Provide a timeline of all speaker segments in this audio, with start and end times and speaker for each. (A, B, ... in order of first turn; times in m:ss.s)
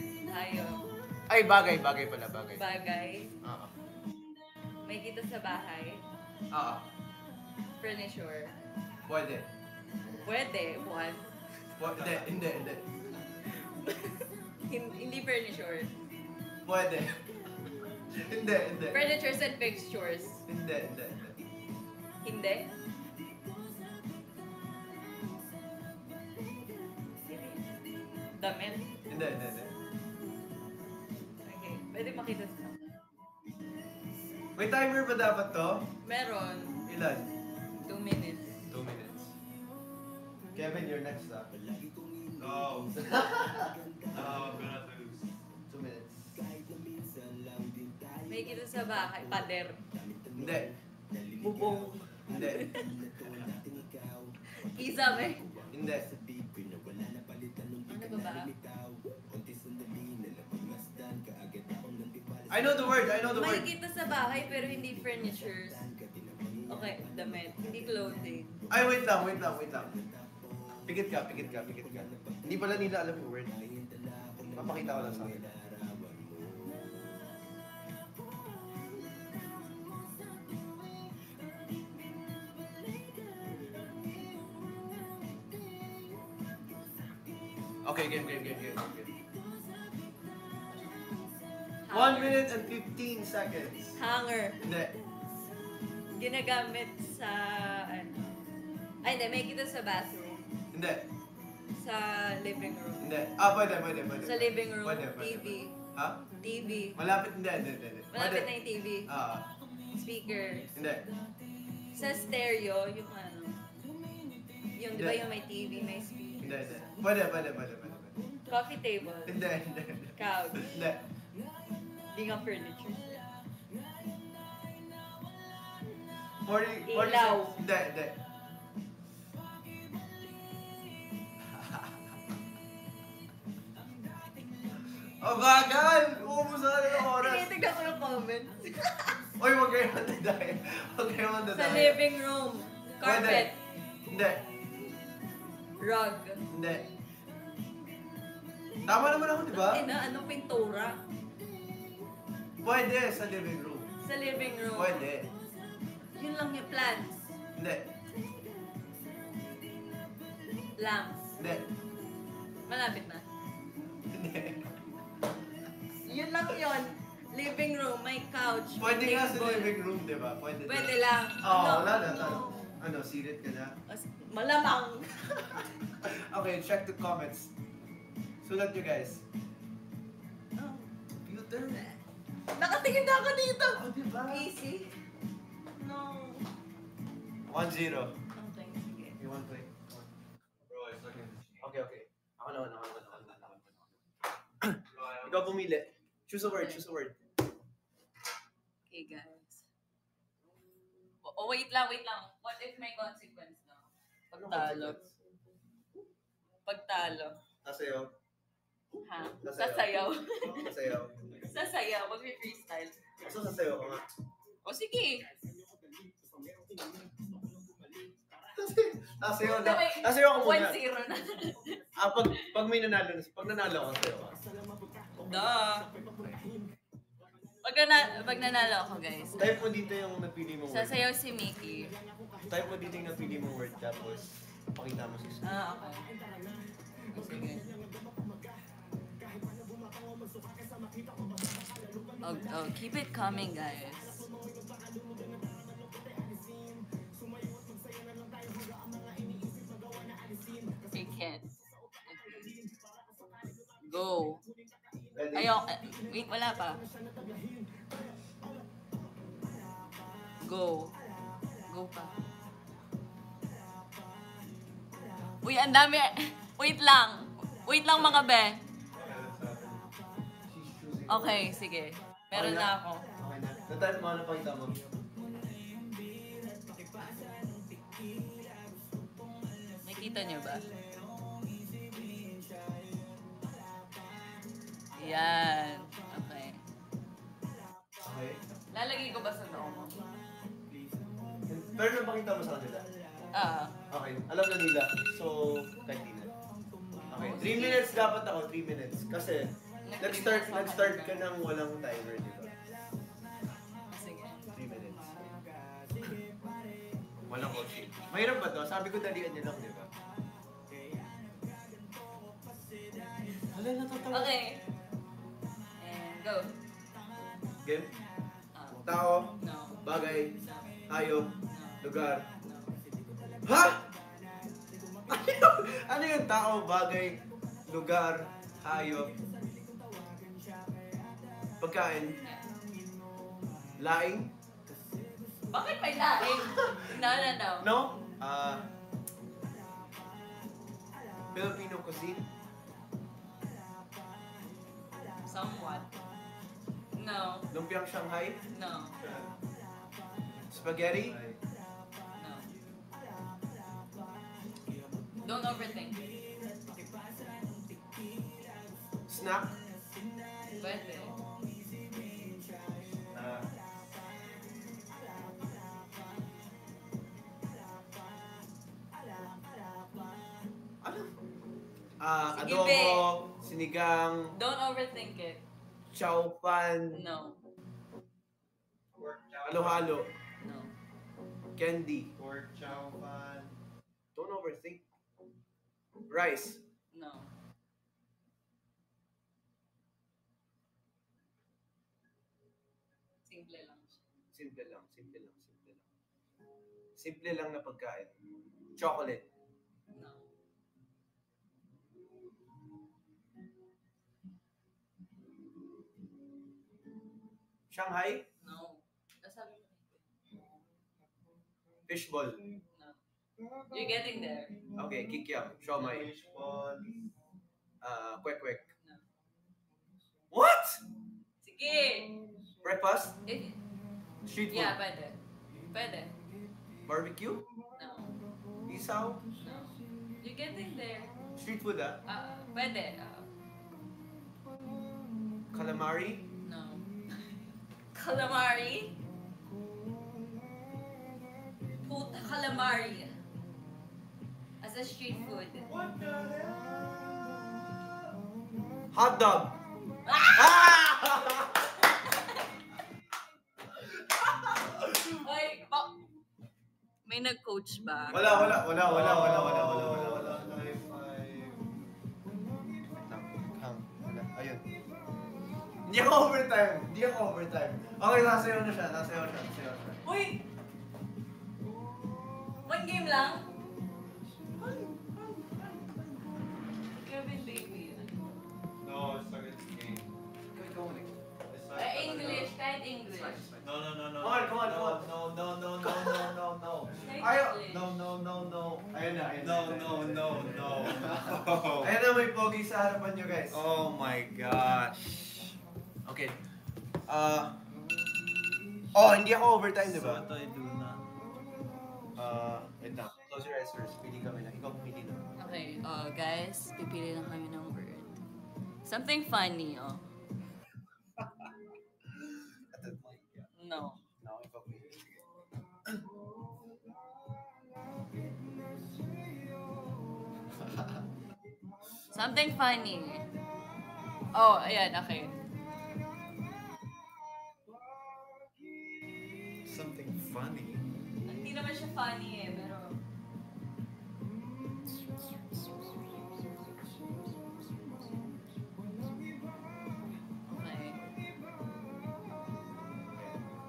0:00.2-0:00.9 A
0:01.3-0:02.6 B
0:02.5-0:03.3 A
0:03.4-0:03.7 B
0:04.8-0:06.0 A
0:06.5-0:06.8 B
0:07.8-0:08.5 A
0:09.0-0:09.5 B
0:10.2-0:11.3 A
0:11.8-0:12.9 B
0:11.8-0:12.3 C
0:13.8-0:15.9 A
0:16.6-0:17.2 B
0:18.1-0:19.0 B
0:18.9-0:20.4 A
0:20.5-0:21.4 B
0:22.2-0:22.7 A
0:27.2-0:27.6 A
0:28.3-0:28.9 A
0:29.1-0:29.7 B
0:31.4-0:32.8 A
0:34.5-0:35.9 B
0:36.0-0:36.8 A
0:36.8-0:37.3 B
0:37.8-0:38.6 A
0:38.7-0:39.3 B
0:40.5-0:41.5 B
0:42.4-0:42.9 C
0:42.5-0:44.5 B
0:44.1-0:45.3 C
0:45.7-0:46.4 B
0:48.3-0:49.8 A
0:50.3-0:50.7 B
0:51.4-0:52.8 A
0:52.2-0:52.8 B
0:54.5-0:55.5 A
0:55.7-0:56.1 B
0:57.9-0:58.5 A
1:02.5-1:03.7 B
1:03.3-1:05.9 A
1:06.7-1:08.5 A
1:08.7-1:09.9 B
1:10.8-1:13.6 B
1:14.5-1:15.5 B
1:27.8-1:29.1 B
1:31.8-1:32.4 A
1:31.9-1:34.0 B
1:34.0-1:34.6 A
1:34.6-1:35.0 B
1:36.1-1:38.2 A
1:39.0-1:40.5 A
1:40.7-1:41.1 B
1:41.7-1:43.1 A
1:43.0-1:46.2 B
1:44.2-1:45.7 A
1:46.4-1:47.0 A
1:47.0-1:48.5 B
1:48.1-1:49.1 A
1:49.1-1:49.5 B
1:49.9-1:50.7 A
1:50.7-1:51.1 B
1:51.9-1:53.6 A
1:54.7-1:56.6 A
1:54.9-1:55.2 B
1:56.4-1:58.1 B
1:58.5-1:59.4 A
1:59.2-2:01.0 B
2:00.2-2:00.8 A
2:02.1-2:03.2 A
2:06.4-2:08.2 B
2:06.8-2:07.6 A
2:15.2-2:17.5 B
2:16.9-2:18.8 A
2:19.4-2:22.0 B
2:21.5-2:23.5 A
2:23.0-2:23.5 B
2:24.0-2:24.4 B
2:25.8-2:26.4 A
2:26.5-2:26.8 B
2:28.8-2:29.9 B
2:29.5-2:31.0 A
2:32.6-2:33.9 B
2:34.0-2:35.1 A
2:34.7-2:35.3 B
2:36.1-2:37.2 A
2:37.6-2:37.9 B
2:40.8-2:41.2 A
2:41.4-2:41.7 B
2:42.7-2:43.2 A
2:44.1-2:44.7 B
2:46.0-2:49.8 A
2:48.8-2:53.8 B
2:50.6-2:52.7 A
2:53.9-2:55.6 A
2:55.9-2:57.5 B
2:58.4-2:59.2 B
3:00.6-3:00.8 A
3:01.2-3:02.0 B
3:02.5-3:04.9 A
3:03.7-3:04.5 B
3:05.8-3:06.4 A
3:07.4-3:08.2 B
3:08.3-3:09.2 A
3:09.2-3:10.0 B
3:10.7-3:11.7 C
3:11.6-3:13.8 B
3:14.6-3:17.2 B
3:14.9-3:15.5 C
3:16.5-3:16.8 A
3:18.9-3:19.6 A
3:21.2-3:25.0 A
3:24.3-3:25.1 B
3:26.6-3:27.4 A
3:27.6-3:28.1 B
3:29.0-3:30.7 A
3:29.4-3:29.9 B
3:30.5-3:31.2 B
3:31.4-3:33.0 A
3:33.2-3:34.0 B
3:34.6-3:35.3 A
3:38.5-3:40.8 B
3:39.4-3:41.8 A
3:42.0-3:44.4 B
3:45.2-3:45.9 A
3:47.6-3:49.7 A
3:49.4-3:51.0 B
3:50.7-3:51.9 A
3:52.5-3:55.4 B
3:55.4-3:56.2 A
3:57.1-3:57.7 A
4:02.2-4:04.3 A
4:10.8-4:11.4 A
4:12.0-4:12.5 A
4:13.8-4:14.4 A
4:15.1-4:15.6 B
4:15.3-4:16.8 A
4:20.4-4:20.9 A
4:21.7-4:22.2 A
4:25.4-4:28.6 A
4:28.9-4:29.8 C
4:30.5-4:31.5 B
4:31.1-4:33.1 A
4:32.3-4:34.8 B
4:39.8-4:40.6 A
4:44.9-4:46.7 A
4:48.0-4:48.4 B
4:48.7-4:50.1 A
4:51.5-4:52.9 B
4:53.3-4:53.8 A
4:53.9-4:56.3 B
4:57.1-4:58.1 A
4:57.1-5:02.6 B
4:59.8-5:01.3 A
5:03.9-5:04.4 A
5:04.5-5:05.1 B
5:07.3-5:09.9 B
5:13.5-5:14.3 B
5:14.1-5:14.6 A
5:15.8-5:16.6 A
5:17.6-5:17.9 B
5:18.5-5:18.9 A
5:18.7-5:22.3 B
5:19.4-5:20.8 A
5:21.4-5:22.7 A
5:23.4-5:23.8 B
5:25.1-5:29.2 B
5:31.6-5:32.2 B
5:32.0-5:32.5 A
5:33.8-5:34.3 B
5:35.5-5:37.7 A
5:36.4-5:36.9 B
5:37.6-5:38.7 B
5:41.3-5:42.3 B
5:45.2-5:45.9 A
5:46.9-5:47.5 A
5:47.5-5:48.4 B
5:48.5-5:49.0 A
5:49.0-5:49.3 C
5:50.3-5:51.4 C
5:50.5-5:51.2 B
5:52.1-5:52.5 A
5:55.2-5:56.1 A
5:59.1-5:59.6 B
6:00.5-6:01.2 A
6:03.1-6:03.5 B
6:10.8-6:11.1 B
6:12.0-6:14.4 B
6:12.3-6:13.1 A
6:14.3-6:15.4 A
6:15.9-6:17.0 B
6:16.9-6:17.4 A
6:18.9-6:20.1 C
6:19.4-6:20.1 B
6:20.4-6:20.7 A
6:21.6-6:22.1 B
6:22.2-6:23.6 C
6:24.1-6:24.8 B
6:26.1-6:26.6 B
6:26.9-6:27.3 A
6:33.2-6:34.0 A
6:34.3-6:35.8 B
6:37.0-6:38.1 B
6:38.8-6:39.2 B
6:39.9-6:40.2 A
6:47.7-6:48.3 B
6:48.4-6:50.0 A
6:51.9-6:52.4 B
6:53.7-6:54.6 A
6:54.8-6:56.2 B
6:55.7-6:56.9 C
6:57.8-6:58.7 B
7:00.3-7:00.8 B
7:01.4-7:02.2 A
7:02.6-7:03.2 B
7:03.2-7:03.6 A
7:04.2-7:04.7 B
7:04.5-7:05.2 A
7:05.7-7:06.1 A
7:06.8-7:07.4 B
7:07.8-7:08.1 A
7:08.7-7:09.2 B
7:09.4-7:11.1 A
7:11.4-7:12.0 B
7:12.0-7:13.3 A
7:15.5-7:16.3 B
7:16.4-7:16.8 A
7:17.9-7:18.9 A
7:21.8-7:23.2 A
7:24.6-7:25.7 A
7:25.7-7:26.5 B
7:28.9-7:29.6 B
7:30.0-7:30.6 A
7:30.3-7:31.6 B
7:35.2-7:36.0 A
7:37.0-7:38.6 A
7:38.1-7:40.6 B
7:38.3-7:41.6 C
7:43.0-7:44.6 B
7:45.8-7:50.0 B
7:50.0-7:50.4 A
7:52.6-7:53.5 A
7:56.9-7:58.3 A
7:58.8-8:00.1 C
8:00.5-8:01.1 B
8:01.5-8:02.5 C
8:01.7-8:03.5 A
8:03.3-8:03.7 B
8:03.6-8:05.1 C
8:04.2-8:13.6 B
8:06.9-8:07.9 A
8:09.3-8:12.0 C
8:13.5-8:15.6 C
8:16.0-8:16.4 B
8:17.1-8:17.6 B
8:18.9-8:20.2 B
8:19.8-8:21.1 C
8:22.2-8:25.2 B
8:25.4-8:28.2 A
8:28.8-8:30.0 A
8:32.5-8:33.5 B
8:33.6-8:34.0 A
8:34.2-8:35.2 B
8:42.1-8:43.2 A
8:44.3-8:45.4 A
8:49.6-8:50.9 C
8:51.2-8:53.0 A
9:00.5-9:01.0 A